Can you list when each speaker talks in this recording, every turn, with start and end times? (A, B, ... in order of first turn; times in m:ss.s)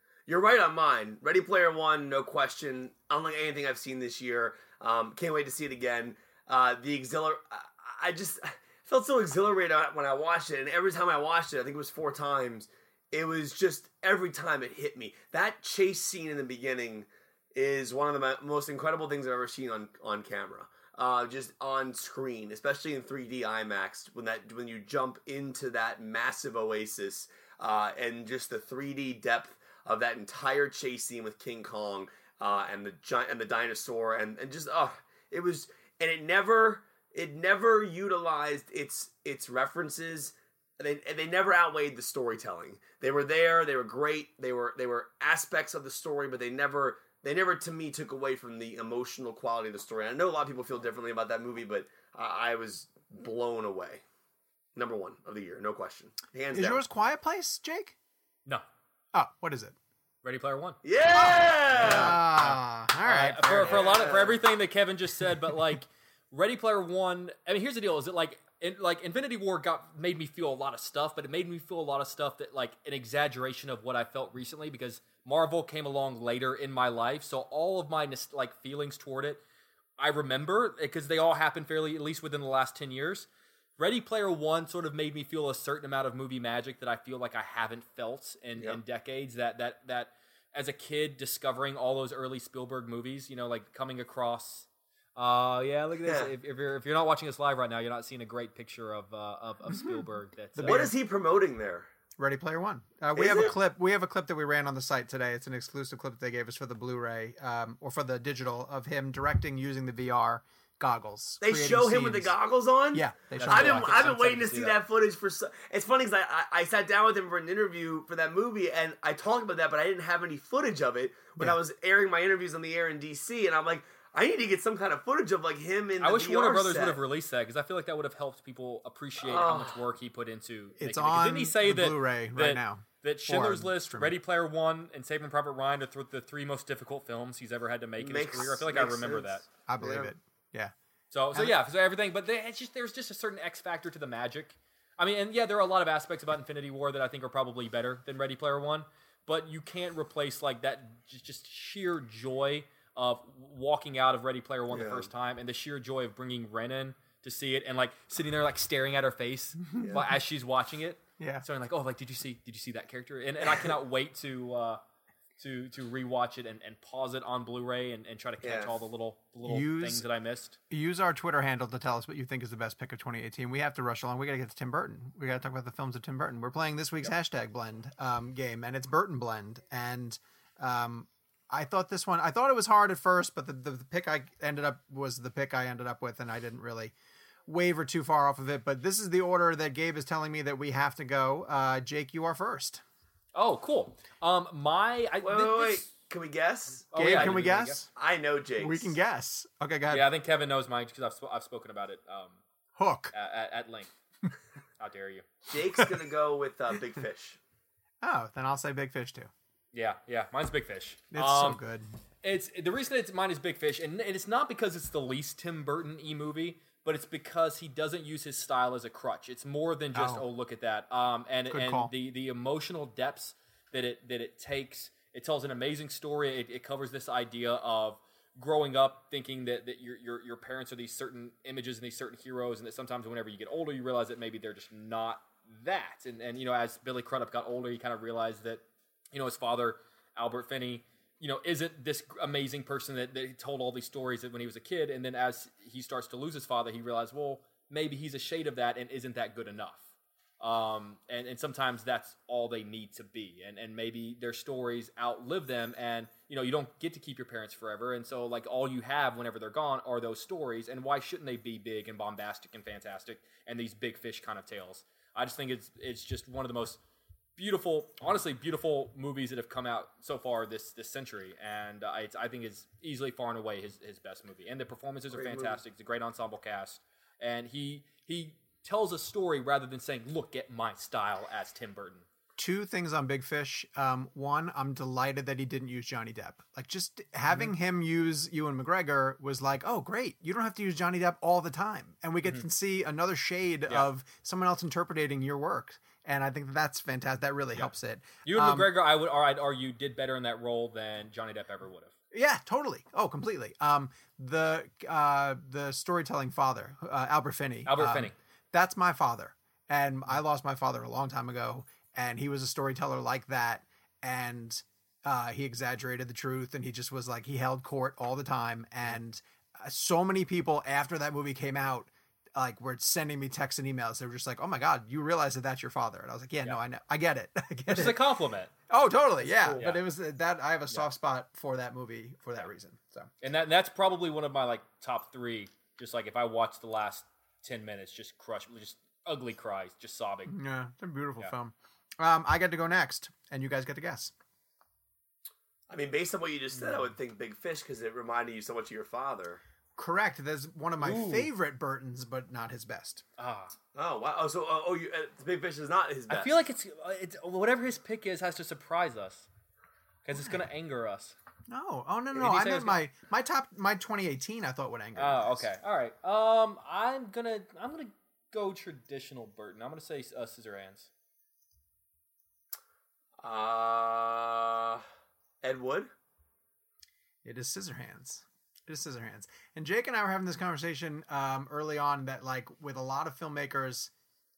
0:00.2-0:54.0 A
0:54.7-0:56.8 A
0:56.5-0:57.9 B
0:59.1-0:59.8 B
1:00.2-1:00.8 C
1:00.8-1:02.2 A
1:01.7-1:19.4 C
1:01.8-1:03.8 B
1:03.6-1:04.4 A
1:20.0-1:23.3 C
1:23.8-1:40.9 C
1:36.0-1:36.3 A
1:39.7-1:40.0 B
1:40.6-1:40.9 B
1:40.6-1:41.9 A
1:42.2-1:52.3 B
1:43.1-1:43.5 A
1:51.4-2:07.0 A
1:52.9-1:54.1 B
1:53.4-1:54.8 C
2:06.0-2:19.5 C
2:09.2-2:09.8 A
2:10.8-2:14.1 B
2:18.0-2:20.1 A
2:19.7-2:20.7 B
2:21.1-2:44.8 C
2:34.7-2:35.1 A
2:39.8-2:40.2 A
2:41.2-2:41.4 B
2:45.4-2:50.6 C
2:48.4-2:48.7 A
2:49.4-2:50.0 B
2:50.7-3:06.9 B
3:07.5-3:12.8 B
3:13.3-3:15.9 C
3:15.2-3:17.4 A
3:16.9-3:17.8 C
3:16.9-3:17.8 B
3:17.9-3:19.0 A
3:18.6-3:20.0 B
3:19.9-3:22.4 C
3:22.8-3:23.1 B
3:23.1-3:23.9 C
3:24.8-3:25.3 C
3:25.5-3:27.4 A
3:28.0-3:29.3 B
3:29.7-3:31.6 C
3:31.1-3:31.9 B
3:32.2-4:09.8 C
3:39.9-3:40.2 B
3:41.5-3:41.9 B
4:10.4-4:26.8 C
4:27.4-4:42.0 C
4:35.1-4:35.6 A
4:42.4-4:58.7 B
4:58.2-5:01.9 C
5:02.1-5:28.0 B
5:07.6-5:08.1 C
5:27.7-5:28.5 C
5:28.7-5:33.1 B
5:29.2-5:29.8 C
5:33.2-5:40.3 C
5:40.3-5:44.1 B
5:45.7-5:49.4 A
5:49.8-5:53.0 B
5:50.8-5:51.3 C
5:53.2-5:53.5 C
5:53.7-5:56.4 A
5:56.1-5:59.3 C
6:00.0-6:01.2 C
6:01.5-6:05.4 B
6:02.1-6:02.8 C
6:05.0-6:10.9 C
6:13.2-6:14.8 A
6:15.4-6:15.9 A
6:17.2-6:23.9 B